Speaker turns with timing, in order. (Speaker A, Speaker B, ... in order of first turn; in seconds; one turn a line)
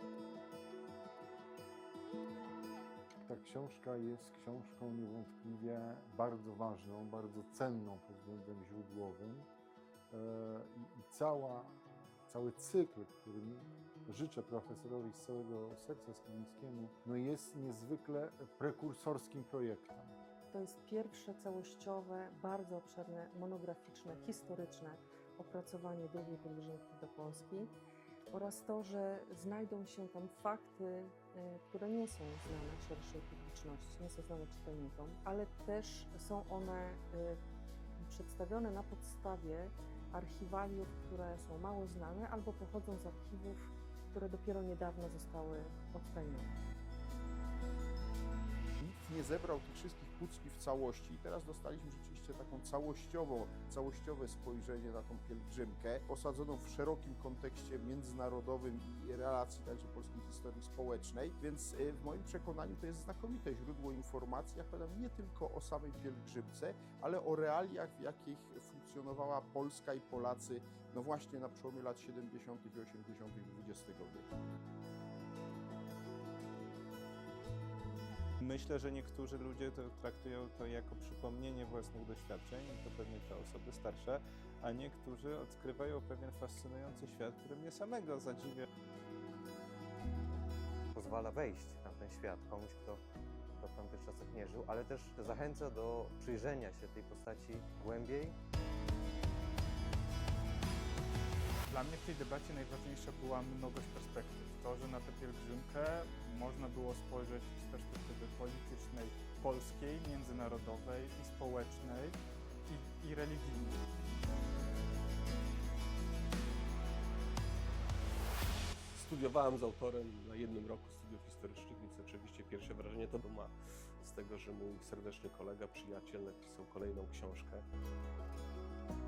Speaker A: 3.2-9.5
Speaker A: 10.1-20.2
Speaker B: 20.5-27.8
Speaker B: 28.3-37.4
Speaker B: 37.9-46.6
Speaker C: 48.8-74.3
Speaker D: 78.4-88.7
Speaker E: 90.9-98.4
Speaker F: 101.7-113.8
Speaker G: 118.9-127.7